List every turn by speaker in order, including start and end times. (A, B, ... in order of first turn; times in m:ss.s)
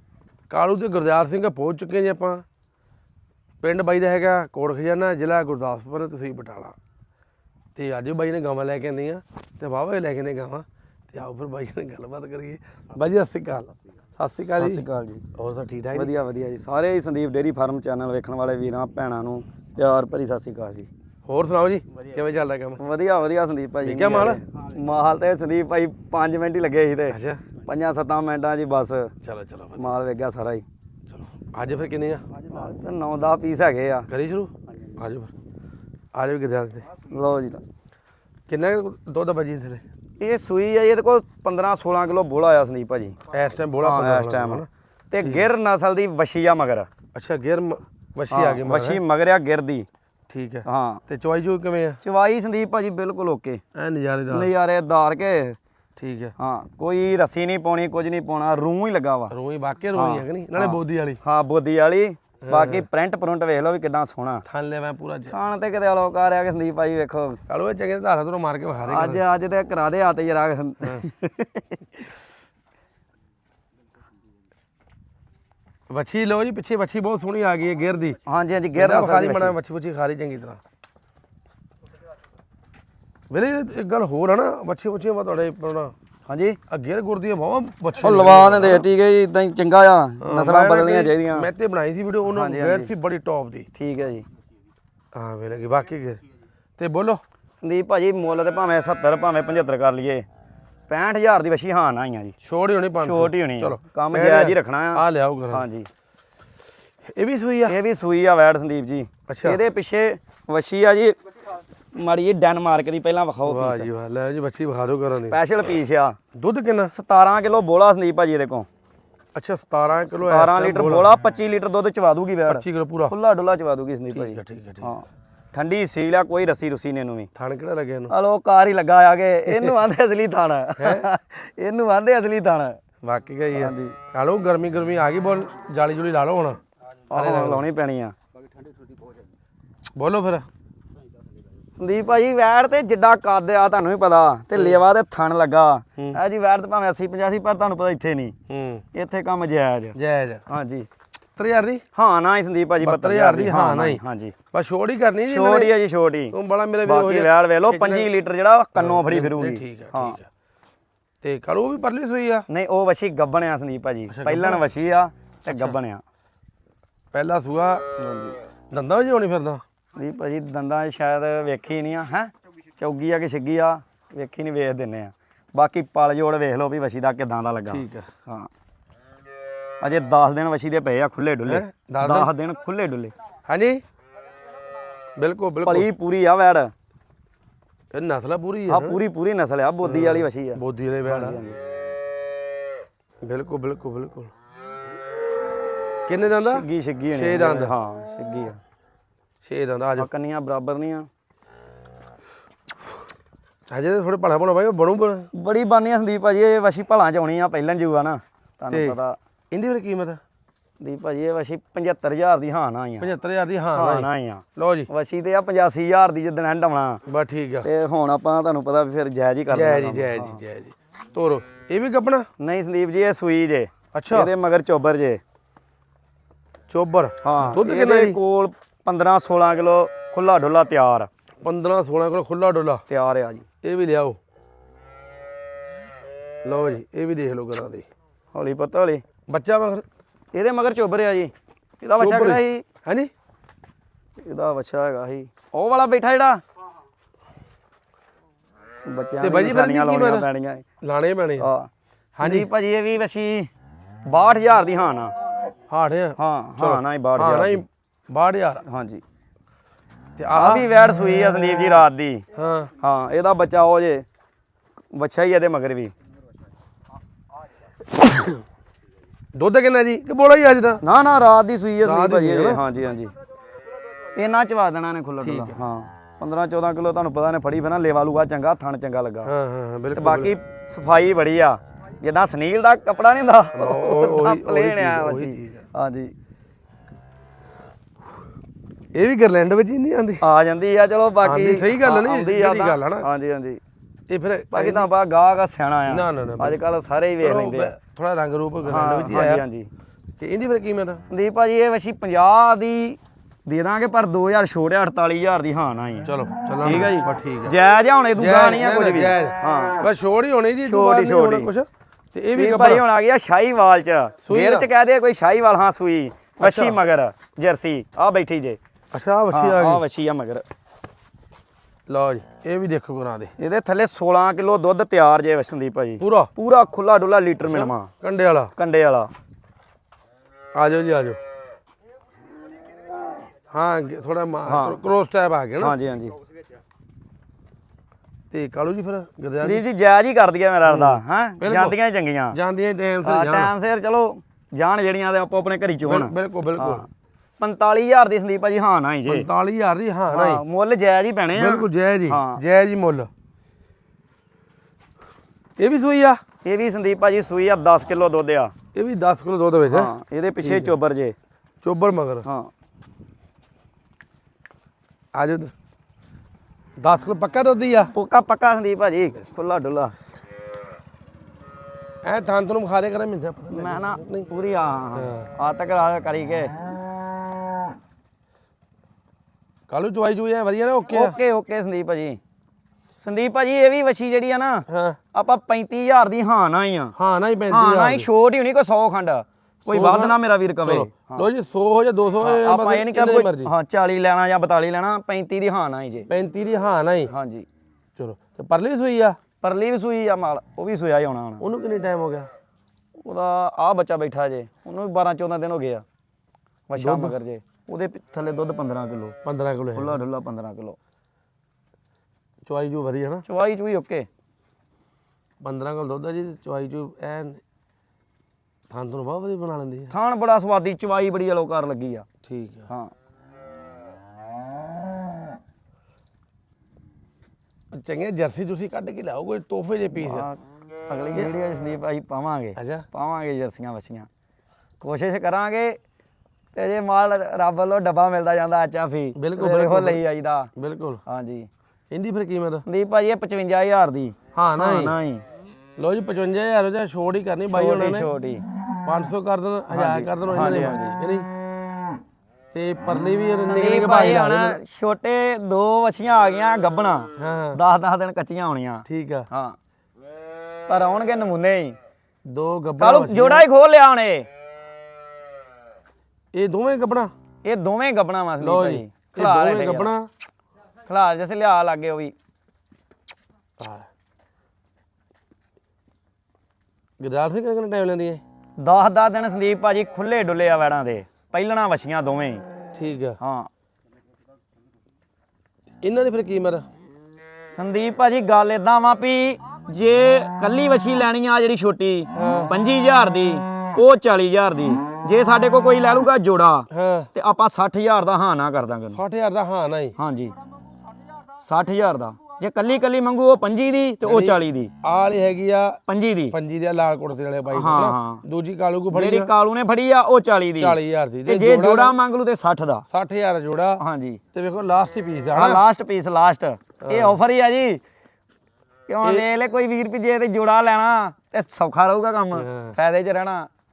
0:00.5-0:02.4 A
0:03.6-0:06.8 A
0:07.8-0:16.1 A
0:14.4-0:15.2 B
0:15.9-0:20.9 B
0:21.3-0:22.8 A
0:22.8-0:29.1 B
0:23.8-0:24.4 A
0:27.1-0:27.4 A
0:29.2-0:29.8 A
0:29.8-0:30.6 B
0:31.1-0:32.3 A
0:32.4-0:34.1 B
0:34.1-0:35.3 A
0:36.2-0:36.9 A
0:37.1-0:37.6 B
0:38.5-0:39.8 A
0:40.2-0:43.2 B
0:43.3-0:44.7 A
0:43.8-0:46.9 B
0:45.2-0:45.5 A
0:47.1-0:49.0 A
0:48.3-0:49.9 B
0:50.3-0:52.0 A
0:50.6-0:51.0 B
0:52.0-0:53.6 B
0:53.8-0:54.5 A
0:54.3-0:55.6 B
0:56.0-0:56.3 A
0:56.4-0:59.3 B
0:59.3-1:01.2 A
0:59.9-1:04.4 B
1:02.4-1:02.9 A
1:04.5-1:05.4 A
1:05.3-1:07.4 B
1:07.5-1:09.2 A
1:08.9-1:11.8 B
1:15.9-1:18.2 A
1:18.3-1:19.6 B
1:18.8-1:20.6 A
1:23.3-1:25.9 A
1:26.3-1:26.6 B
1:26.7-1:28.8 A
1:28.0-1:31.5 B
1:30.2-1:33.7 A
1:32.3-1:32.9 B
1:33.7-1:34.3 B
1:35.1-1:36.2 A
1:36.8-1:37.2 A
1:37.6-1:40.3 B
1:40.9-1:42.4 B
1:42.4-1:45.7 A
1:43.0-1:45.9 B
1:47.1-1:47.8 A
1:47.7-1:51.2 B
1:49.3-1:49.6 A
1:51.9-1:53.9 B
1:53.5-1:55.4 A
1:55.3-1:56.2 B
1:56.4-1:56.9 A
1:56.9-1:58.7 B
1:59.4-2:01.1 A
2:00.0-2:07.3 B
2:02.5-2:03.2 A
2:04.1-2:04.9 A
2:07.4-2:08.1 A
2:08.1-2:12.8 B
2:10.8-2:11.1 A
2:13.0-2:16.6 A
2:13.5-2:14.0 B
2:17.1-2:18.2 B
2:17.1-2:17.6 A
2:20.0-2:20.5 A
2:21.7-2:28.4 B
2:28.5-2:28.8 A
2:28.9-2:30.9 B
2:30.0-2:30.4 A
2:31.4-2:31.8 A
2:31.9-2:34.4 B
2:32.8-2:34.0 A
2:34.5-2:35.7 A
2:35.3-2:40.2 B
2:36.3-2:38.1 A
2:38.8-2:40.3 A
2:41.2-2:42.5 A
2:42.5-2:46.0 B
2:44.1-2:44.6 A
2:45.5-2:45.8 A
2:47.1-2:47.8 A
2:48.0-2:48.4 B
2:48.7-2:49.6 A
2:49.9-2:58.5 B
2:57.7-2:58.1 A
2:59.8-3:03.1 B
3:01.5-3:02.3 A
3:03.5-3:03.8 A
3:05.2-3:05.9 A
3:05.6-3:06.7 B
3:07.9-3:09.0 A
3:08.7-3:11.6 B
3:09.8-3:11.4 A
3:13.2-3:14.3 A
3:16.1-3:17.7 A
3:16.4-3:18.6 B
3:19.4-3:20.1 A
3:20.0-3:21.1 B
3:23.7-3:25.3 A
3:25.3-3:29.2 B
3:28.7-3:29.0 A
3:29.5-3:30.2 A
3:30.8-3:33.1 B
3:33.0-3:34.9 A
3:33.7-3:37.0 B
3:37.1-3:37.7 A
3:37.6-3:40.4 B
3:39.5-3:42.3 A
3:42.4-3:45.2 B
3:43.9-3:44.3 A
3:46.7-3:48.2 A
3:47.2-3:51.1 B
3:51.4-3:52.8 A
3:52.9-3:53.5 B
3:53.6-3:54.2 A
3:56.4-3:57.9 A
3:58.3-3:59.0 B
3:59.3-3:59.8 A
4:00.3-4:02.6 B
4:02.0-4:03.1 A
4:04.2-4:06.4 B
4:08.9-4:10.6 B
4:09.2-4:10.3 A
4:10.8-4:11.5 A
4:11.4-4:13.5 B
4:12.2-4:12.5 A
4:14.1-4:15.1 B
4:15.7-4:18.6 A
4:16.2-4:17.7 B
4:18.7-4:19.0 B
4:20.2-4:20.7 A
4:20.3-4:22.2 B
4:22.4-4:22.7 A
4:22.8-4:24.0 B
4:24.9-4:25.9 B
4:29.4-4:30.8 A
4:30.8-4:33.1 B
4:31.8-4:32.6 A
4:34.1-4:39.3 B
4:35.2-4:35.6 A
4:39.3-4:40.4 A
4:39.9-4:46.1 B
4:43.5-4:45.7 A
4:48.9-4:50.2 A
4:50.2-4:53.6 B
4:51.2-4:53.1 A
4:54.1-4:54.9 A
4:54.5-4:57.7 B
4:55.9-4:56.6 A
4:57.2-4:59.4 A
4:58.6-4:59.7 B
5:00.2-5:01.0 A
5:01.1-5:09.9 B
5:06.0-5:07.6 A
5:08.2-5:12.8 A
5:10.6-5:11.5 B
5:12.3-5:18.6 B
5:14.2-5:14.7 A
5:16.4-5:16.8 A
5:18.9-5:19.8 A
5:19.3-5:20.4 B
5:21.9-5:23.3 A
5:23.4-5:27.9 B
5:26.0-5:26.3 A
5:27.5-5:28.5 A
5:28.6-5:29.1 B
5:30.6-5:31.2 A
5:33.5-5:35.8 A
5:34.5-5:34.9 B
5:35.6-5:36.2 B
5:38.3-5:39.6 A
5:39.4-5:42.4 B
5:40.7-5:41.8 A
5:42.3-5:43.5 A
5:43.0-5:49.3 B
5:45.8-5:46.8 A
5:49.1-5:50.4 A
5:50.1-5:52.4 B
5:51.3-5:53.1 A
5:55.6-5:56.2 A
5:56.4-5:58.5 B
5:58.7-6:00.7 A
5:59.7-6:01.2 B
6:01.6-6:02.3 A
6:02.2-6:02.5 B
6:05.1-6:05.5 A
6:06.8-6:07.9 A
6:07.9-6:10.0 B
6:12.0-6:14.3 A
6:13.5-6:16.6 B
6:15.0-6:15.3 A
6:19.7-6:21.2 A
6:20.9-6:22.2 B
6:23.0-6:27.0 B
6:24.7-6:25.0 A
6:27.0-6:28.1 A
6:27.5-6:31.3 B
6:29.7-6:33.5 A
6:32.2-6:36.1 B
6:36.1-6:37.1 A
6:37.1-6:37.5 B
6:38.0-6:39.2 A
6:39.4-6:41.5 B
6:41.4-6:42.3 A
6:43.0-6:45.8 B
6:46.7-6:49.2 B
6:46.8-6:47.2 A
6:49.2-6:50.0 A
6:49.7-6:50.8 B
6:52.5-6:53.2 A
6:53.3-6:54.1 B
6:55.4-6:57.4 A
6:58.7-6:59.9 A
6:59.9-7:02.1 B
7:02.2-7:02.7 A
7:07.7-7:10.3 A
7:10.0-7:14.1 B
7:12.6-7:12.9 A
7:14.8-7:15.8 B
7:16.5-7:20.5 B
7:19.2-7:20.0 A
7:20.6-7:21.0 A
7:21.1-7:21.5 B
7:21.9-7:22.6 A
7:22.6-7:25.2 B
7:24.4-7:25.0 A
7:25.8-7:28.1 A
7:27.5-7:28.4 B
7:28.8-7:31.3 A
7:29.7-7:31.0 B
7:32.5-7:34.6 A
7:33.4-7:39.6 B
7:37.2-7:37.6 A
7:38.9-7:39.3 A
7:40.7-7:41.8 B
7:42.3-7:43.5 A
7:42.8-7:44.3 B
7:46.3-7:47.1 A
7:47.4-7:49.9 B
7:48.4-7:50.1 A
7:50.9-7:52.2 B
7:53.6-7:53.9 A
7:57.0-7:58.2 A
7:58.6-8:02.4 B
8:02.7-8:03.2 A
8:03.2-8:03.5 B
8:05.8-8:06.7 A
8:07.5-8:19.0 B
8:12.2-8:12.5 A
8:16.7-8:17.1 A
8:18.9-8:20.0 A
8:20.0-8:20.4 B
8:21.4-8:24.7 B
8:24.1-8:25.8 A
8:25.9-8:26.4 B
8:26.3-8:29.3 A
8:27.5-8:28.2 B
8:28.9-8:32.9 B
8:30.6-8:32.0 A
8:32.9-8:35.6 A
8:33.8-8:34.2 B
8:35.3-8:37.8 B
8:36.8-8:37.2 A
8:38.9-8:43.5 B
8:42.4-8:42.7 A